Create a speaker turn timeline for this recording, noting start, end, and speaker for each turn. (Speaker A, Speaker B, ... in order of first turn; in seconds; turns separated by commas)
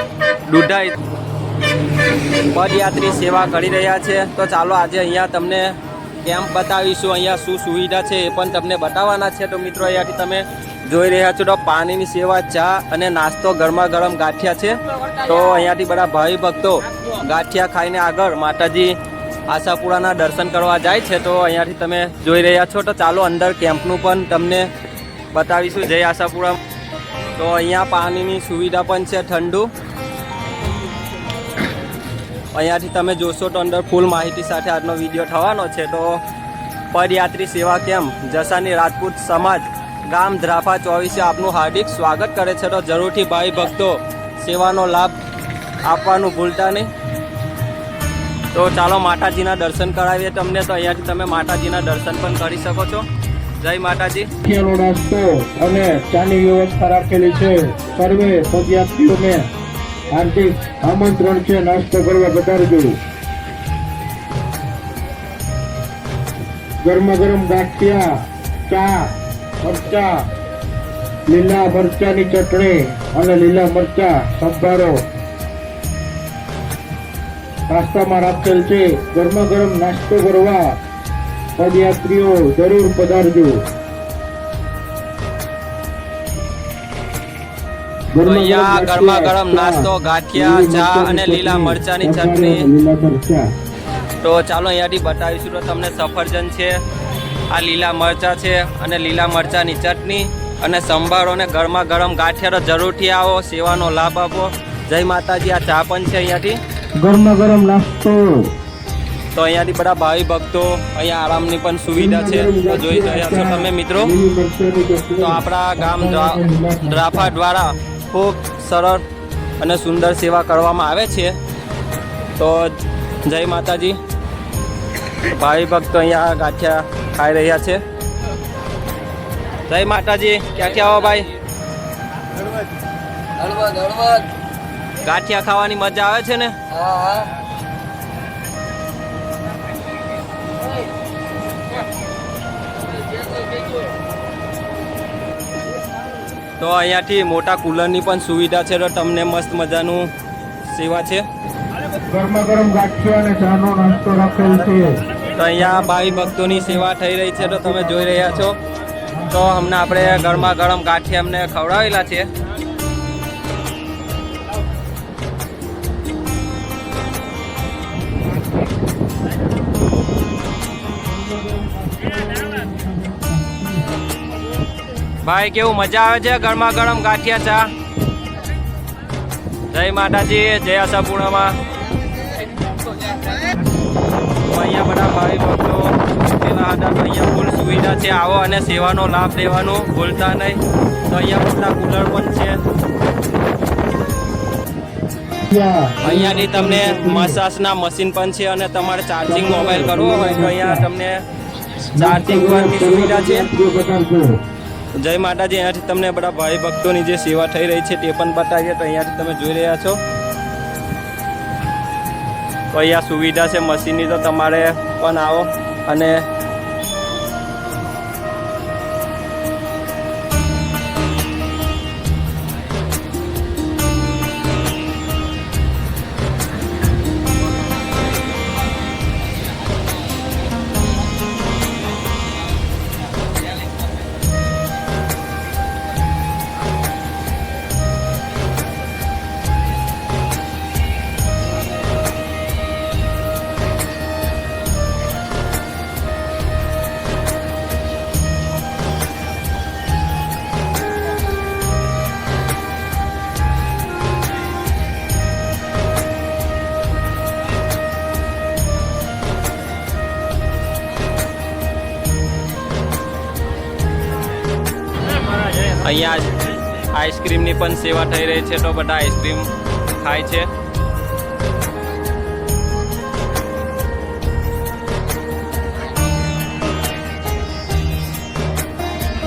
Speaker A: 0.5-0.9, Speaker A: 2.5-19.0, Speaker A: 19.5-24.7, Speaker A: 25.3-26.6, Speaker A: 27.4-29.7, Speaker A: 32.5-36.2, Speaker A: 36.9-45.2, Speaker A: 45.8-46.9, Speaker A: 48.5-53.0, Speaker A: 53.6-54.3, Speaker B: 54.4-59.5, Speaker B: 60.1-63.0, Speaker B: 66.8-70.2, Speaker B: 71.3-75.0, Speaker B: 77.7-80.8, Speaker B: 81.6-83.6, Speaker B: 88.1-93.5, Speaker A: 88.2-92.7, Speaker A: 94.2-96.8, Speaker A: 97.5-106.6, Speaker B: 107.0-108.5, Speaker A: 109.3-114.1, Speaker B: 111.9-117.4, Speaker A: 115.2-119.0, Speaker A: 119.6-121.3, Speaker A: 122.4-122.7, Speaker A: 123.2-124.0, Speaker A: 125.2-127.8, Speaker A: 129.7-131.3, Speaker C: 133.4-134.3, Speaker A: 135.0-136.6, Speaker C: 136.7-137.3, Speaker C: 143.1-143.8, Speaker A: 146.6-150.1, Speaker A: 150.7-151.2, Speaker B: 152.1-158.5, Speaker A: 155.4-158.6, Speaker B: 159.1-160.5, Speaker A: 159.3-162.3, Speaker B: 171.0-173.9, Speaker A: 175.2-177.7, Speaker A: 179.7-181.6, Speaker A: 184.4-192.6, Speaker B: 195.5-197.4, Speaker A: 196.0-201.2, Speaker B: 199.2-200.9, Speaker A: 202.0-203.5, Speaker B: 202.0-204.4, Speaker A: 205.0-210.0, Speaker A: 212.7-216.2, Speaker A: 265.6-270.5